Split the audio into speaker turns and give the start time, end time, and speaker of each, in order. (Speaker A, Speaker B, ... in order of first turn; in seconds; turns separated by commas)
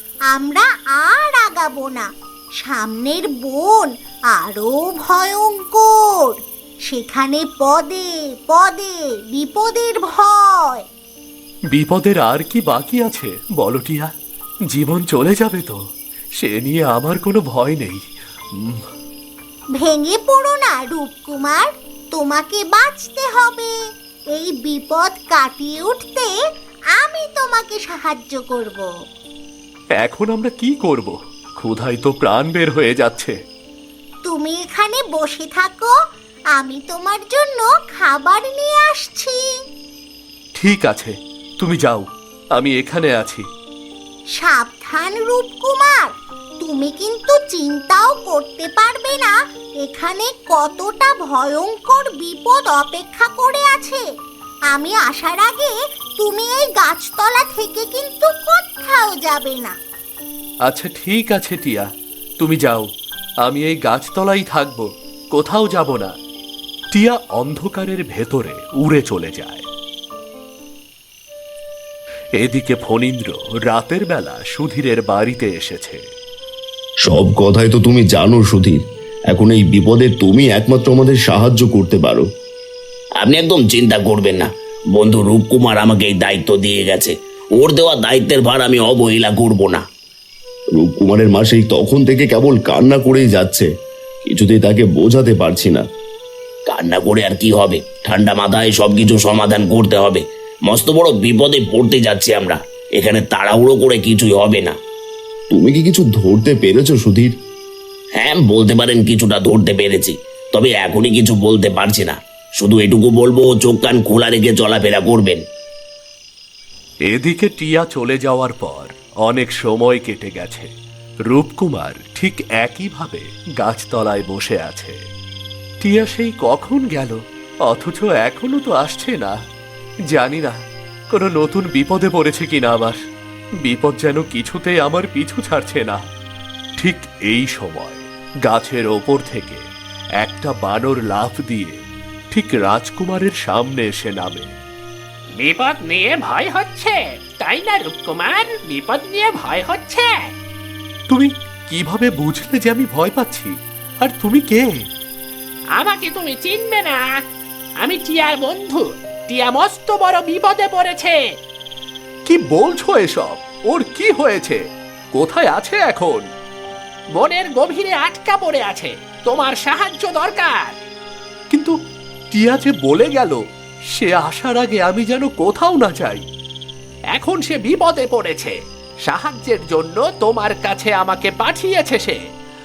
Speaker A: 0.3-2.1, Speaker A: 2.6-10.8, Speaker B: 11.7-14.1, Speaker B: 14.7-15.8, Speaker B: 16.4-18.0, Speaker A: 19.8-23.7, Speaker A: 24.3-26.3, Speaker A: 26.9-28.9, Speaker B: 30.0-33.3, Speaker A: 34.2-35.9, Speaker A: 36.5-39.4, Speaker B: 40.5-43.4, Speaker A: 44.4-54.0, Speaker A: 54.7-59.8, Speaker B: 60.6-61.9, Speaker B: 62.4-62.9, Speaker B: 63.4-66.1, Speaker B: 66.9-69.7, Speaker B: 72.4-76.0, Speaker C: 77.0-82.2, Speaker D: 83.2-89.8, Speaker C: 90.8-93.7, Speaker C: 94.2-95.8, Speaker D: 96.7-104.7, Speaker C: 105.5-107.3, Speaker D: 108.2-115.4, Speaker B: 117.1-120.7, Speaker B: 121.3-125.0, Speaker B: 125.8-129.4, Speaker B: 130.1-130.6, Speaker B: 131.1-133.0, Speaker B: 133.6-136.0, Speaker B: 136.8-139.6, Speaker B: 140.2-141.8, Speaker B: 142.3-144.5, Speaker E: 145.4-150.3, Speaker B: 151.1-154.7, Speaker E: 155.8-157.2, Speaker E: 157.8-161.2, Speaker B: 162.2-164.6, Speaker B: 165.1-166.2, Speaker E: 167.2-170.7, Speaker B: 171.5-171.8, Speaker B: 172.3-176.2, Speaker E: 177.1-178.5, Speaker E: 179.1-182.1